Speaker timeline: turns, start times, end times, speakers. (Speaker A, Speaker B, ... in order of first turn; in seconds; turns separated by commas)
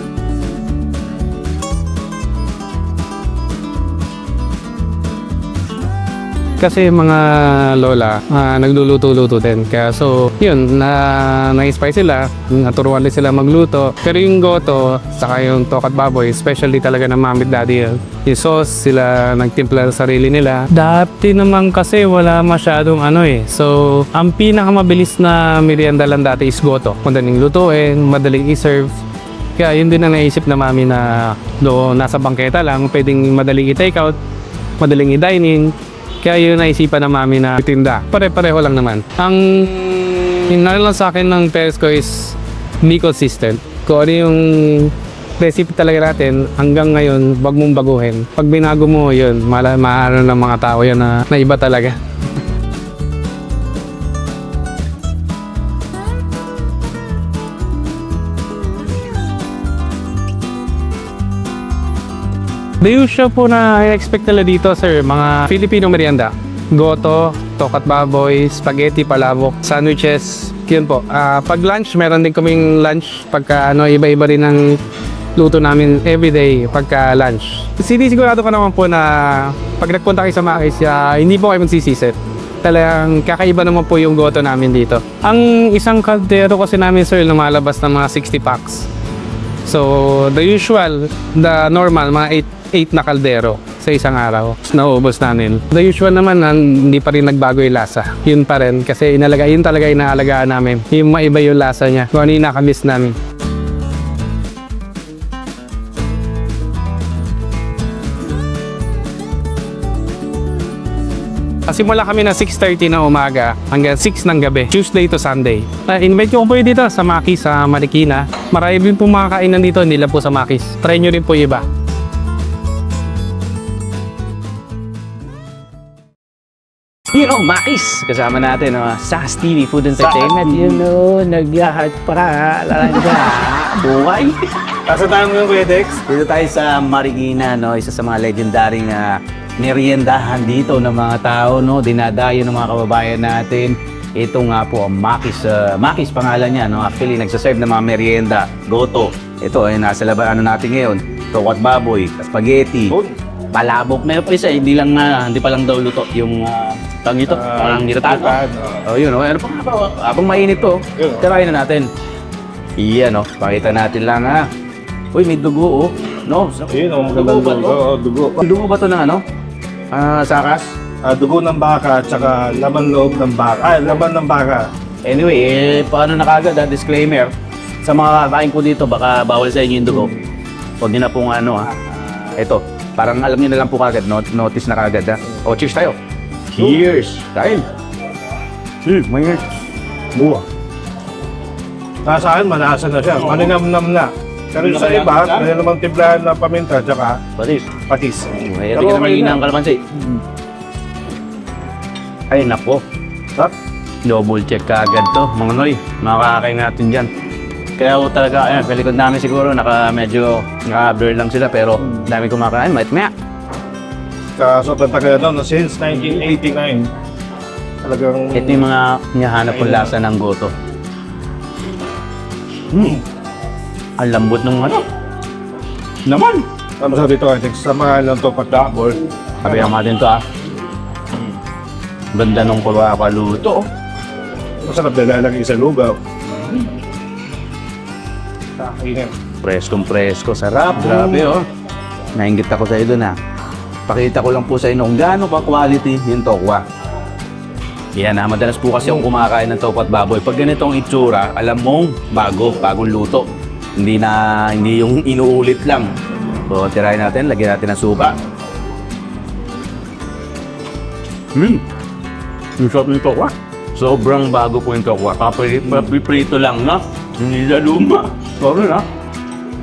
Speaker A: 6.6-29.0, Speaker A: 29.6-34.2, Speaker A: 34.8-52.0, Speaker A: 62.8-74.8, Speaker A: 75.3-88.9, Speaker A: 89.6-103.2, Speaker A: 111.7-121.6, Speaker B: 127.1-134.4, Speaker C: 130.0-130.8, Speaker C: 134.9-136.0, Speaker B: 136.1-152.9, Speaker C: 152.9-153.2, Speaker B: 153.5-161.9, Speaker C: 157.3-158.8, Speaker C: 161.0-161.2, Speaker B: 162.8-164.4, Speaker B: 165.1-167.8, Speaker C: 166.7-168.4, Speaker B: 168.4-169.2, Speaker B: 169.9-170.7, Speaker C: 171.0-174.6, Speaker B: 175.1-177.3, Speaker B: 177.8-180.1, Speaker B: 180.8-181.7, Speaker B: 182.2-185.9, Speaker B: 186.5-187.6, Speaker B: 188.8-189.4, Speaker C: 190.1-190.4, Speaker C: 192.0-197.2, Speaker B: 193.2-193.5, Speaker B: 194.5-195.5, Speaker B: 197.4-197.7, Speaker C: 197.9-199.5, Speaker B: 198.4-200.0, Speaker B: 202.3-202.8, Speaker B: 204.0-207.1, Speaker B: 207.8-213.1, Speaker C: 214.4-216.9, Speaker B: 215.9-216.2, Speaker C: 217.8-218.7, Speaker B: 218.3-220.5, Speaker C: 219.5-219.9, Speaker B: 222.7-223.0, Speaker B: 224.0-224.8, Speaker B: 226.1-226.4, Speaker C: 226.8-229.7, Speaker B: 229.4-230.2, Speaker B: 232.1-233.7, Speaker C: 234.6-236.0, Speaker C: 238.6-239.1, Speaker B: 239.4-241.4, Speaker C: 240.8-241.3, Speaker B: 242.2-243.2, Speaker B: 243.9-246.6, Speaker B: 247.9-253.2, Speaker B: 253.8-255.9, Speaker B: 256.5-258.1, Speaker B: 261.3-261.6, Speaker B: 262.6-268.8